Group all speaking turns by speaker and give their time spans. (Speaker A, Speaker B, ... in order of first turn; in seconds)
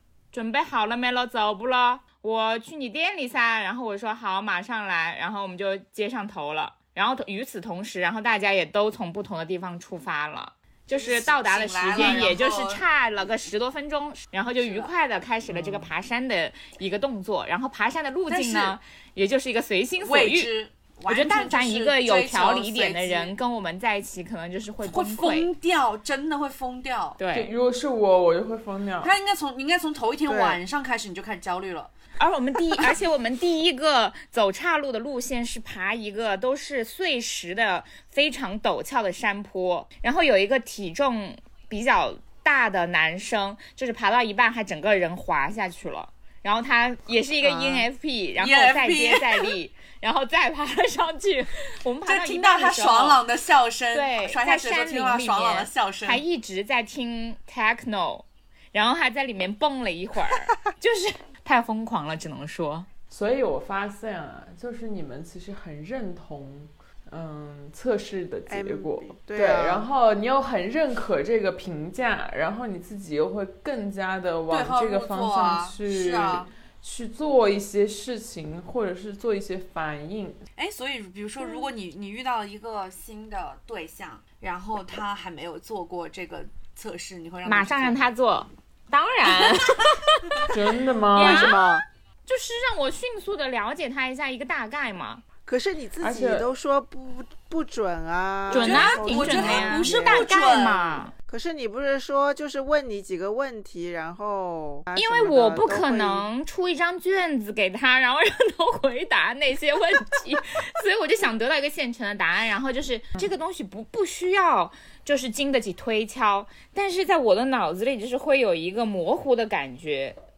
Speaker A: 0.3-20.5, 21.1-25.5, 27.2-27.5, 32.2-53.2, 53.9-62.9, 87.4-90.5, 91.1-95.2, 98.5-101.1, 105.0-120.2
Speaker B: 10.9-12.8, 14.6-14.9, 18.3-18.8, 20.0-23.3, 24.8-27.2, 29.0-31.9, 48.4-49.5, 52.0-56.2, 74.5-76.5, 80.6-88.1, 89.3-90.0, 98.5-101.1
Speaker C: 15.5-15.9, 27.3-29.1, 63.1-80.4, 90.5-91.5, 96.0-96.5
Speaker D: 30.2-30.6, 47.4-47.9, 68.5-69.8, 91.2-91.8, 95.4-100.3, 101.3-106.3